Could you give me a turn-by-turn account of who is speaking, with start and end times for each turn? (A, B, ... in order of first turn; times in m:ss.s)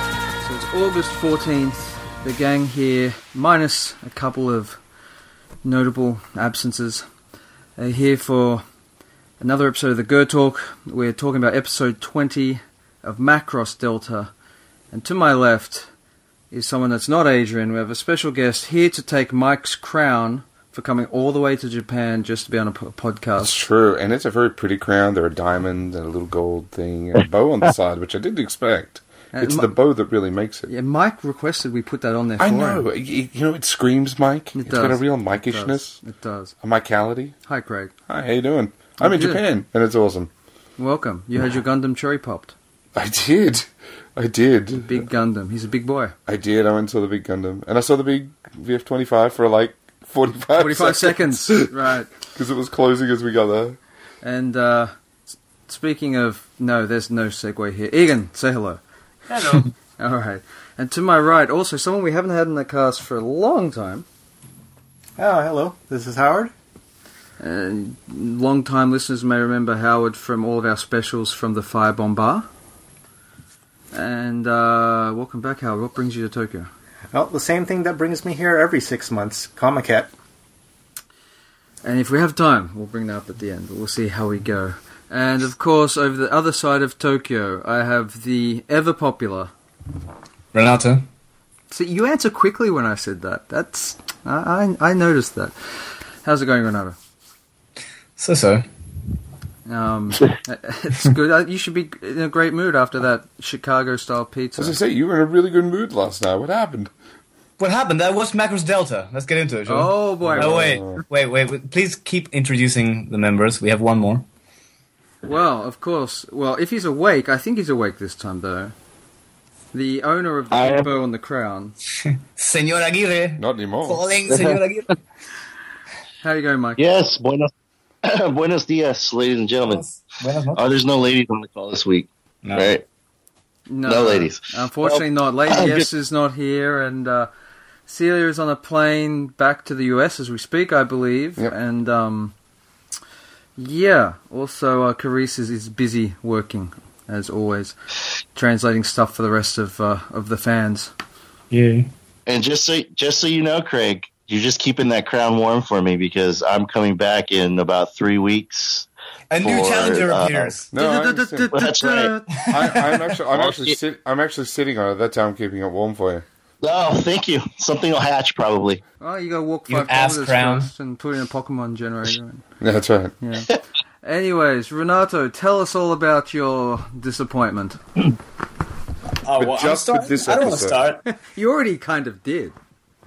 0:00.4-0:04.8 A
0:05.6-0:07.1 A
0:07.8-0:08.6 A
0:09.4-0:14.3 A
0:14.9-0:15.9 A
0:16.5-0:23.6 A
0:23.4-0:30.7 B
0:29.3-0:29.7 A
0:30.7-0:32.8 A
0:32.4-0:36.0 B
0:34.5-0:36.5 A
0:36.6-0:37.4 B
0:37.4-0:37.9 A
0:38.1-0:40.3 B
0:39.0-0:39.4 A
0:40.8-0:42.5 A
0:43.0-0:45.1 B
0:44.8-0:46.1 A
0:46.3-0:51.7 B
0:50.6-0:52.1 A
0:52.3-0:53.8 B
0:54.2-0:54.9 A
0:55.7-0:58.8 A
0:59.5-1:04.0 A
1:05.2-1:06.5 C
1:07.4-1:12.5 A
1:13.9-1:16.7 A
1:17.1-1:20.1 C
1:21.8-1:29.5 A
1:30.5-1:31.1 D
1:31.7-1:37.0 A
1:38.2-1:38.7 D
1:39.6-1:44.8 A
1:44.6-1:46.9 B
1:47.6-1:54.2 D
1:49.6-1:50.8 A
1:50.2-1:51.0 B
1:55.2-1:58.7 A
1:59.7-2:01.8 A
2:00.5-2:00.9 E
2:02.0-2:04.9 D
2:03.4-2:04.0 B
2:04.3-2:04.6 E
2:06.2-2:06.8 A
2:06.8-2:07.5 E
2:08.0-2:09.8 E
2:09.6-2:10.7 D
2:10.5-2:12.8 E
2:12.4-2:12.7 D
2:13.7-2:17.3 A
2:13.8-2:15.9 E
2:17.9-2:22.3 A
2:23.6-2:27.8 A
2:28.3-2:30.9 A
2:31.5-2:31.9 D
2:32.3-2:38.9 E
2:39.3-2:40.7 D
2:39.4-2:40.5 E
2:40.7-2:41.5 B
2:40.7-2:42.8 A
2:41.5-2:42.1 E
2:42.5-2:46.2 B
2:43.3-2:43.8 E
2:46.6-2:48.8 E
2:49.0-2:52.4 A
2:49.7-2:50.7 D
2:52.6-2:53.1 B
2:53.2-2:53.5 A
2:54.0-2:57.8 A
2:59.2-3:01.0 D
2:59.4-3:00.8 B
3:01.1-3:02.5 A